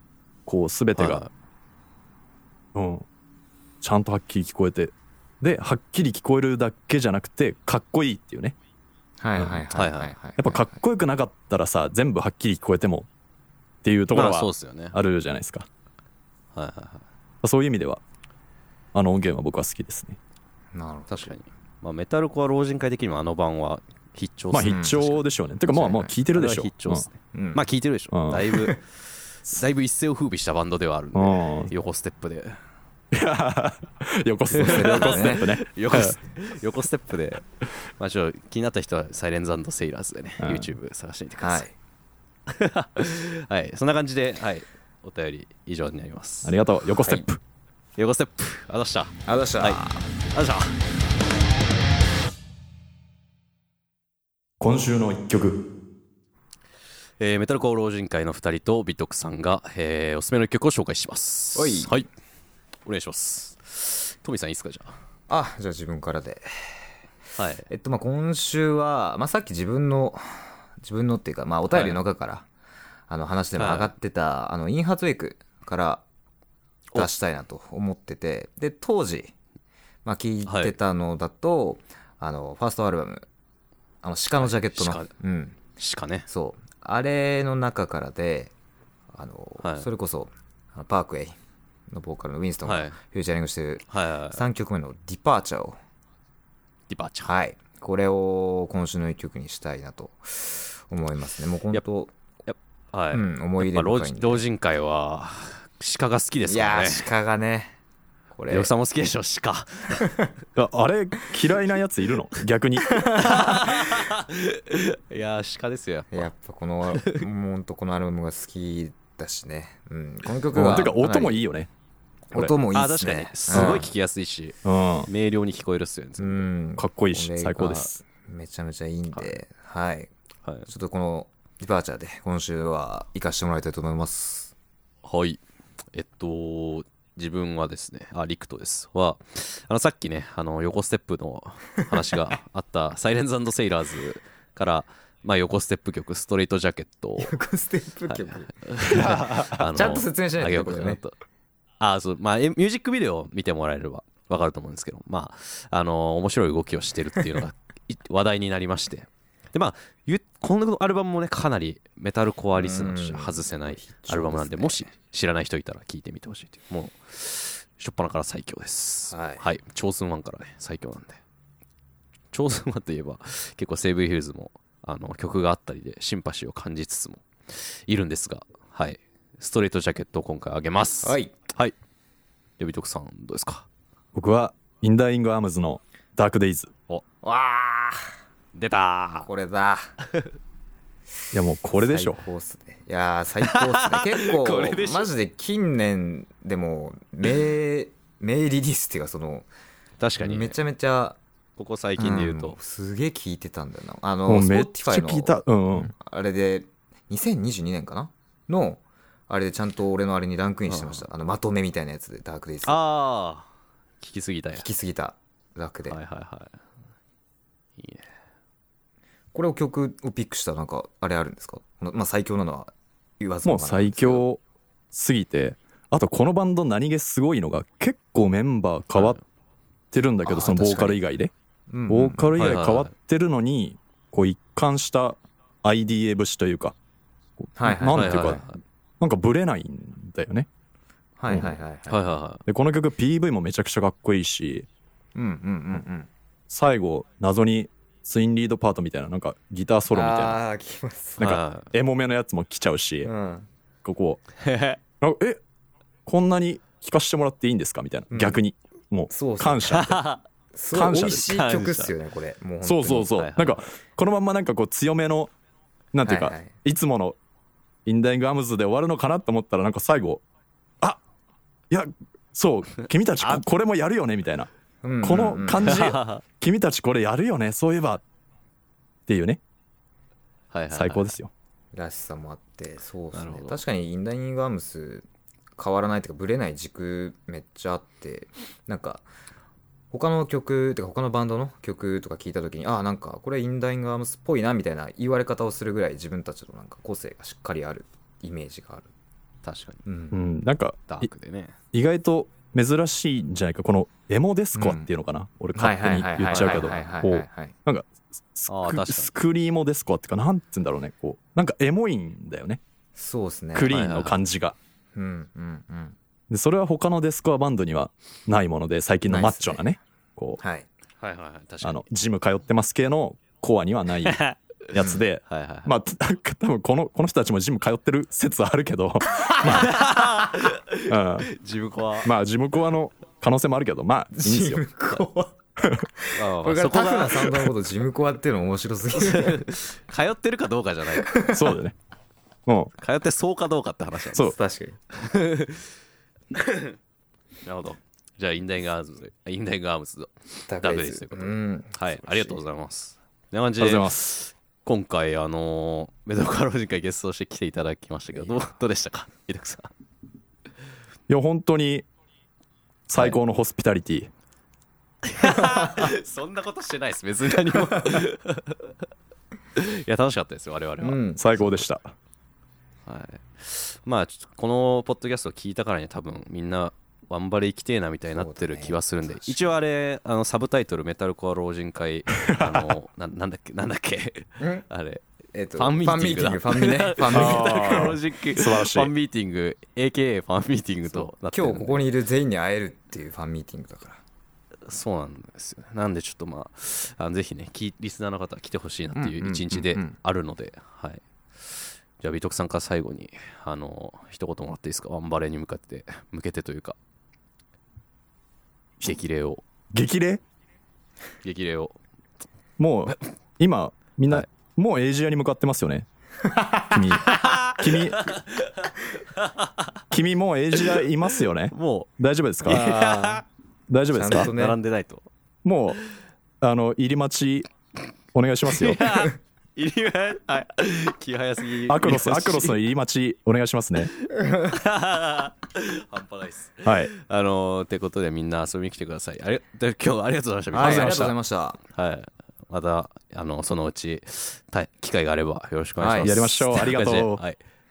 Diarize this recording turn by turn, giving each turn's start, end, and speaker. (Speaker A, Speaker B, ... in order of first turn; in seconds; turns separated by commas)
Speaker A: 0.5-1.2, Speaker B: 0.9-1.3, Speaker A: 2.7-3.0, Speaker A: 3.8-8.6, Speaker C: 9.2-10.8, Speaker B: 9.7-10.1, Speaker A: 10.4-13.1, Speaker A: 13.8-15.7, Speaker B: 14.1-15.0, Speaker B: 16.5-17.0, Speaker A: 17.4-18.0, Speaker A: 18.9-20.2, Speaker C: 20.7-21.3, Speaker B: 21.1-25.2, Speaker A: 24.5-27.1, Speaker C: 24.6-25.1, Speaker C: 25.7-26.1, Speaker B: 26.3-28.8, Speaker C: 27.3-27.6, Speaker A: 28.1-28.6, Speaker B: 29.5-32.6, Speaker A: 31.1-31.7, Speaker A: 33.1-36.1, Speaker B: 34.5-37.4, Speaker C: 34.6-35.5, Speaker B: 38.0-41.6, Speaker A: 40.4-40.7, Speaker C: 41.4-41.7, Speaker B: 42.5-46.6, Speaker A: 46.4-47.4, Speaker B: 48.0-50.7, Speaker C: 49.3-50.0, Speaker A: 54.6-55.6, Speaker B: 57.2-62.1, Speaker C: 61.5-61.9, Speaker B: 62.9-64.9, Speaker C: 65.3-66.5, Speaker B: 67.3-67.7, Speaker C: 67.7-72.5, Speaker B: 71.7-72.0, Speaker C: 73.1-76.0, Speaker B: 73.6-73.9, Speaker C: 76.9-79.3, Speaker C: 80.0-83.3, Speaker B: 80.5-80.8, Speaker C: 84.0-85.6, Speaker B: 84.4-85.1, Speaker B: 85.8-86.3, Speaker C: 86.3-88.5, Speaker C: 89.1-91.3, Speaker B: 89.6-89.9, Speaker C: 91.9-95.8, Speaker B: 92.6-93.0, Speaker B: 93.9-94.4, Speaker B: 96.9-97.3, Speaker C: 97.2-102.1, Speaker B: 102.5-107.1, Speaker C: 103.1-104.4, Speaker C: 106.5-107.8, Speaker C: 108.3-108.7, Speaker B: 108.5-110.1, Speaker A: 110.5-113.0, Speaker C: 113.0-113.8, Speaker B: 113.0-116.3, Speaker C: 116.1-121.4, Speaker B: 116.9-117.2, Speaker A: 120.5-121.7, Speaker C: 122.3-123.9, Speaker B: 122.5-124.5, Speaker A: 123.5-123.8, Speaker A: 124.6-125.1, Speaker B: 125.1-126.5, Speaker C: 126.2-130.1, Speaker A: 126.8-128.0, Speaker C: 130.7-134.5, Speaker B: 135.0-135.4, Speaker B: 135.9-147.4, Speaker C: 147.2-151.0, Speaker B: 148.1-151.1, Speaker B: 151.8-171.2, Speaker C: 162.6-164.9, Speaker C: 169.1-169.4, Speaker B: 172.3-181.7, Speaker C: 181.0-181.3, Speaker B: 182.6-183.7, Speaker A: 184.1-186.7, Speaker C: 187.2-188.1, Speaker B: 188.5-189.3, Speaker C: 189.2-189.9, Speaker A: 191.3-192.2, Speaker C: 191.7-199.5, Speaker B: 193.4-195.1, Speaker B: 200.0-200.6, Speaker C: 200.2-201.2, Speaker B: 201.6-202.6, Speaker C: 202.0-212.8, Speaker A: 204.3-205.9, Speaker B: 210.7-211.0, Speaker B: 212.6-213.5, Speaker B: 214.0-214.7, Speaker C: 214.5-216.0, Speaker B: 215.9-216.6, Speaker B: 217.8-218.1, Speaker C: 219.3-224.2, Speaker A: 223.4-224.4, Speaker A: 224.9-229.2, Speaker B: 228.9-229.2, Speaker A: 229.9-231.3, Speaker C: 230.2-231.0, Speaker C: 231.7-232.5, Speaker A: 231.9-236.8, Speaker B: 232.3-232.9, Speaker A: 237.4-238.4, Speaker C: 237.6-238.4, Speaker B: 237.9-238.6, Speaker A: 239.0-240.5, Speaker C: 241.2-242.0, Speaker A: 241.3-241.6, Speaker B: 241.9-242.4, Speaker A: 242.5-244.7, Speaker C: 245.1-246.1, Speaker A: 246.5-250.4, Speaker C: 249.9-251.4, Speaker A: 251.2-253.1, Speaker B: 251.2-251.7, Speaker C: 253.0-253.5, Speaker A: 253.8-254.2, Speaker B: 254.4-254.8, Speaker A: 255.0-255.4, Speaker A: 256.1-260.0, Speaker C: 258.1-258.4, Speaker C: 259.1-259.9, Speaker B: 259.7-260.2, Speaker C: 260.5-263.3, Speaker A: 260.7-261.3, Speaker B: 261.1-261.9, Speaker A: 262.6-265.3, Speaker B: 263.1-263.6, Speaker A: 265.9-267.2, Speaker C: 266.0-266.5, Speaker A: 267.9-270.2, Speaker A: 271.7-274.5, Speaker C: 274.8-275.8, Speaker A: 275.0-278.0, Speaker B: 275.6-276.2, Speaker A: 279.1-279.4, Speaker B: 280.5-281.1, Speaker A: 280.7-281.3, Speaker C: 281.7-285.1, Speaker B: 283.1-283.6, Speaker C: 285.6-289.0, Speaker C: 289.9-298.9, Speaker B: 299.4-299.8, Speaker C: 299.9-300.2, Speaker A: 300.1-301.1, Speaker B: 300.9-301.6, Speaker A: 301.7-312.6, Speaker C: 304.5-304.9, Speaker C: 305.5-307.5, Speaker B: 306.3-306.7, Speaker B: 308.5-309.1, Speaker C: 312.9-313.8, Speaker A: 313.5-314.6, Speaker B: 313.7-314.2, Speaker C: 314.9-315.9, Speaker A: 316.3-320.4, Speaker C: 319.1-319.6, Speaker C: 320.4-320.6, Speaker B: 321.0-321.8, Speaker A: 321.6-329.8, Speaker B: 324.0-324.4, Speaker C: 324.8-325.0, Speaker B: 325.3-325.7, Speaker C: 329.2-330.1, Speaker B: 329.5-332.1, Speaker A: 330.9-331.3, Speaker A: 332.0-334.6, Speaker C: 334.1-335.4, Speaker A: 335.6-335.9, Speaker C: 336.0-339.5, Speaker B: 336.1-337.4, Speaker B: 338.9-341.2, Speaker C: 340.9-341.5, Speaker A: 341.3-341.8, Speaker A: 342.5-342.7, Speaker B: 342.8-344.3, Speaker C: 344.2-344.8, Speaker B: 344.9-345.7, Speaker B: 346.3-346.7, Speaker B: 347.4-359.7, Speaker C: 350.5-352.4, Speaker A: 353.6-354.0, Speaker A: 361.1-361.9, Speaker A: 362.9-364.1, Speaker B: 365.0-368.7, Speaker C: 365.4-365.8, Speaker B: 369.5-371.5, Speaker C: 370.8-371.2, Speaker A: 371.2-371.9, Speaker B: 372.9-385.0, Speaker C: 378.1-379.4, Speaker C: 384.4-384.6, Speaker C: 385.3-387.9, Speaker B: 385.6-391.9, Speaker A: 387.1-388.9, Speaker C: 391.0-394.0, Speaker B: 394.6-406.8, Speaker C: 398.9-399.9, Speaker B: 408.8-409.4, Speaker A: 409.7-410.2, Speaker B: 411.2-411.8, Speaker A: 412.6-415.9, Speaker C: 416.3-416.8, Speaker A: 416.7-418.1, Speaker B: 417.1-418.4, Speaker B: 419.1-419.5, Speaker A: 419.9-422.6, Speaker B: 421.5-421.9, Speaker B: 422.4-423.2, Speaker C: 422.5-423.2, Speaker A: 423.7-424.3, Speaker C: 423.9-424.6, Speaker B: 424.1-425.1, Speaker A: 425.4-425.8, Speaker A: 426.4-427.5, Speaker A: 428.1-429.0, Speaker B: 428.5-432.6, Speaker A: 431.7-433.9, Speaker B: 434.4-441.1, Speaker A: 436.6-436.9, Speaker C: 440.5-441.6, Speaker A: 440.6-441.1, Speaker B: 441.7-447.4, Speaker C: 445.8-446.2, Speaker A: 446.0-447.2